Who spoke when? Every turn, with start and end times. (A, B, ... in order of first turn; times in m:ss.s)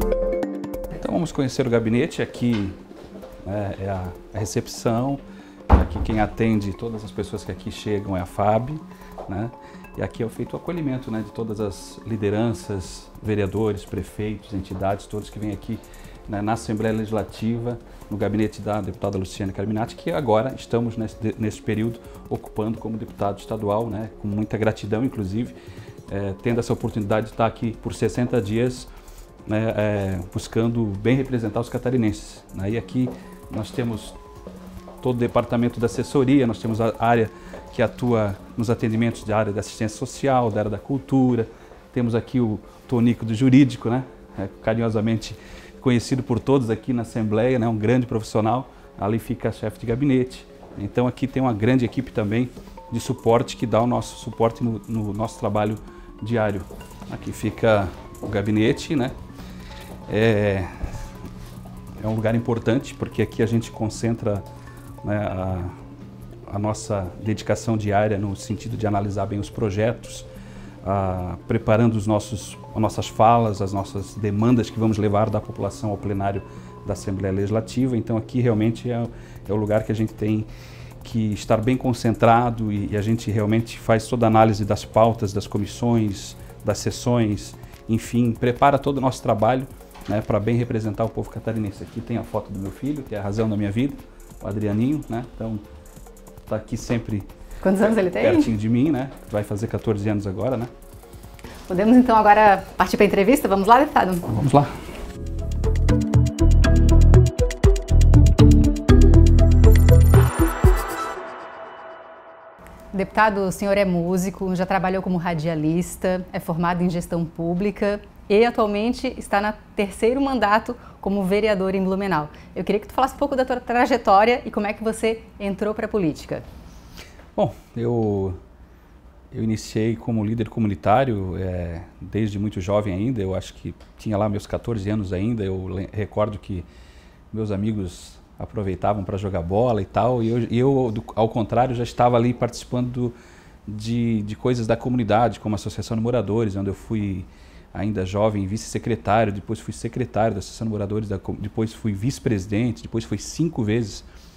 0:01.0-0:02.8 A
0:03.4-0:25.5 A
0:26.1-0:28.9 A
0:29.5-0:34.2 A
0:35.0-0:59.1 A
1:00.1-1:00.7 A
1:02.0-1:04.4 A
1:05.0-1:05.7 A
1:06.5-1:10.3 A
1:10.8-1:20.5 A
1:21.0-1:35.6 A
1:36.5-1:37.3 A
1:37.6-1:38.5 B
1:37.8-1:40.7 A
1:41.7-1:44.3 B
1:44.3-1:44.7 A
1:52.9-2:06.4 B
2:07.4-2:08.4 A
2:09.3-2:16.6 A
2:17.3-2:23.1 A
2:23.7-2:34.1 A